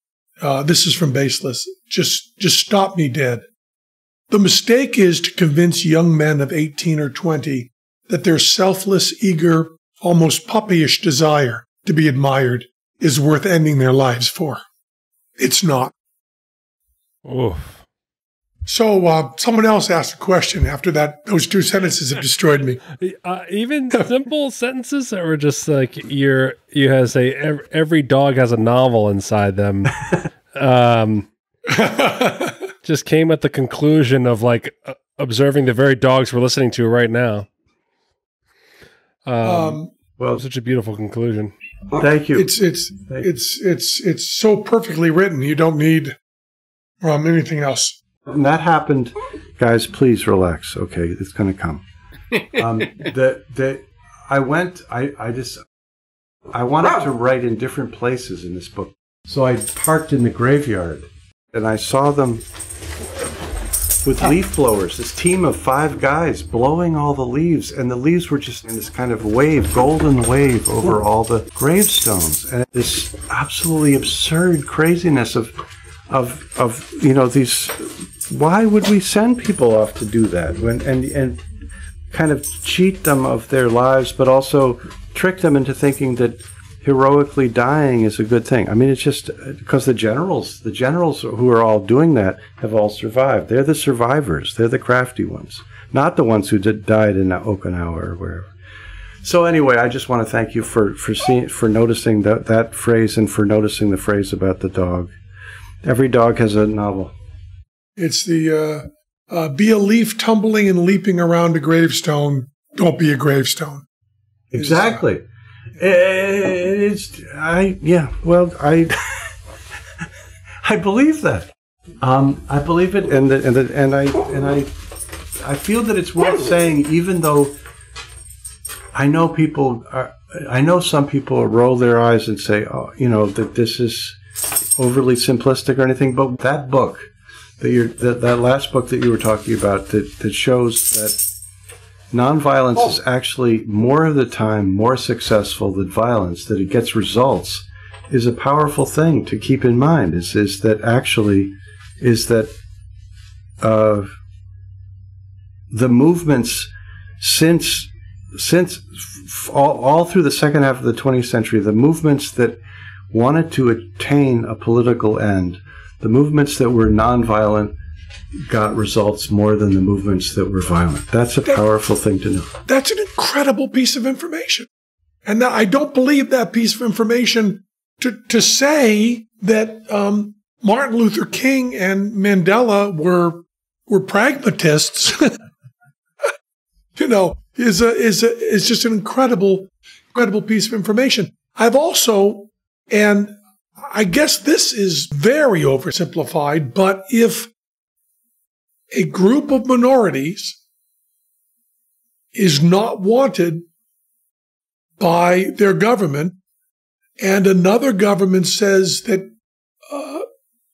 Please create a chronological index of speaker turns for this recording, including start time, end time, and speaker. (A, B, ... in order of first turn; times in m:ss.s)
0:00.4-0:03.4 A
0:04.3-0:14.6 A
0:15.4-0:15.9 A
0:17.2-0:17.8 B
0:18.7-0:22.8 A
0:23.0-0:30.0 B
0:30.5-0:31.3 B
0:31.7-0:32.6 A
0:32.8-0:37.5 B
0:39.2-0:39.8 B
0:39.4-0:39.9 A
0:40.4-0:41.5 B
0:41.9-0:42.5 C
0:42.3-0:46.2 A
0:47.0-0:48.0 A
0:48.3-0:51.8 C
0:52.5-0:55.6 C
0:56.5-1:02.4 C
1:04.0-1:15.6 C
1:16.1-1:21.4 C
1:22.1-1:38.5 C
1:39.2-1:45.1 C
1:45.8-1:47.1 C
1:48.0-1:53.8 A
1:54.5-1:55.2 C
1:54.6-1:55.0 A
1:55.8-1:59.3 C
2:00.6-2:04.7 C
2:05.4-2:07.6 C
2:08.9-2:14.2 C
2:14.8-2:17.1 C
2:17.6-2:21.2 C
2:22.1-2:32.5 C
2:33.6-2:34.1 C
2:35.7-2:42.6 C
2:43.1-2:47.7 C
2:48.5-2:52.5 C
2:52.7-2:54.7 A
2:55.2-3:05.3 A
3:07.0-3:17.5 A
3:18.9-3:20.6 A
3:22.3-3:23.6 A
3:25.0-3:26.4 A
3:27.2-3:29.3 A
3:29.9-3:30.2 A